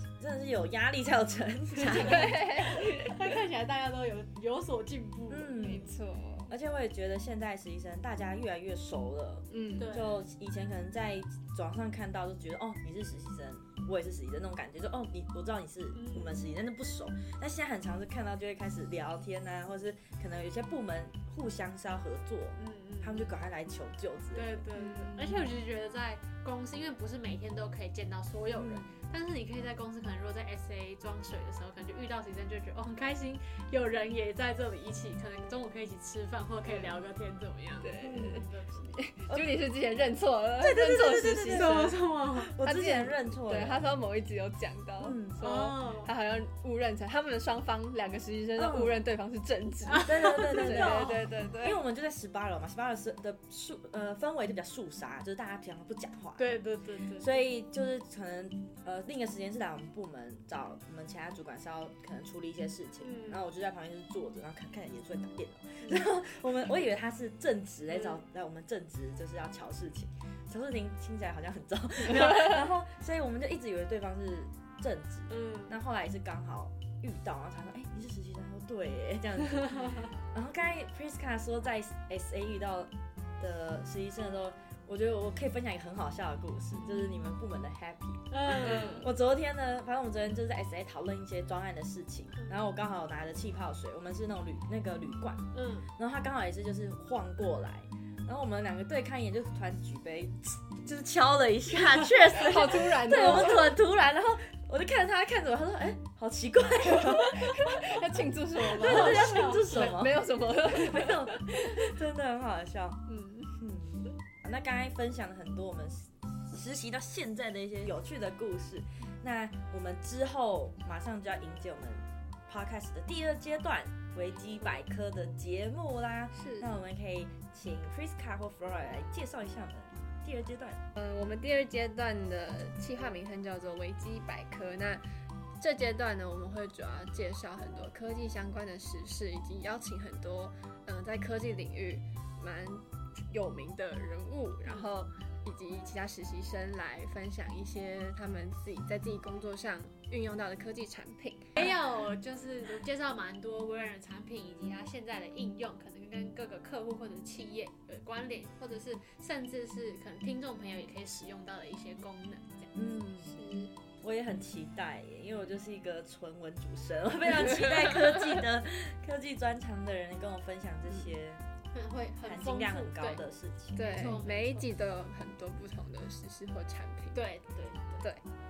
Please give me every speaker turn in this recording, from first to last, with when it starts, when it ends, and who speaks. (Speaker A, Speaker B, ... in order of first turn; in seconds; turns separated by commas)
Speaker A: 0.2-2.5, Speaker B: 1.7-5.7, Speaker C: 1.9-3.1, Speaker A: 5.3-5.9, Speaker C: 5.6-6.5, Speaker A: 6.5-24.6, Speaker C: 9.5-9.9, Speaker B: 9.8-10.2, Speaker B: 15.9-16.5, Speaker B: 22.6-23.4, Speaker B: 24.3-39.0, Speaker C: 24.8-25.4, Speaker A: 28.6-28.9, Speaker C: 37.8-42.0, Speaker A: 38.0-38.4, Speaker A: 40.6-44.0, Speaker B: 41.5-42.5, Speaker C: 42.6-51.8, Speaker A: 45.0-45.4, Speaker B: 45.4-46.1, Speaker A: 48.6-49.0, Speaker B: 49.9-51.3, Speaker A: 50.0-56.6, Speaker B: 56.4-57.5, Speaker A: 57.2-107.8, Speaker B: 63.0-63.5, Speaker B: 67.9-68.2, Speaker B: 75.3-75.8, Speaker B: 88.3-89.1, Speaker C: 88.8-89.1, Speaker B: 95.5-95.9, Speaker C: 102.3-103.8, Speaker C: 107.0-111.1, Speaker A: 108.6-113.0, Speaker B: 108.7-109.9, Speaker A: 113.6-130.8, Speaker C: 126.4-126.7, Speaker C: 130.9-135.0, Speaker C: 135.6-151.7, Speaker B: 151.6-162.7, Speaker A: 162.8-163.3, Speaker C: 163.2-163.7, Speaker A: 164.0-171.4, Speaker B: 171.7-173.2, Speaker A: 172.2-174.2, Speaker C: 173.8-177.2, Speaker B: 173.8-174.7, Speaker B: 177.1-178.1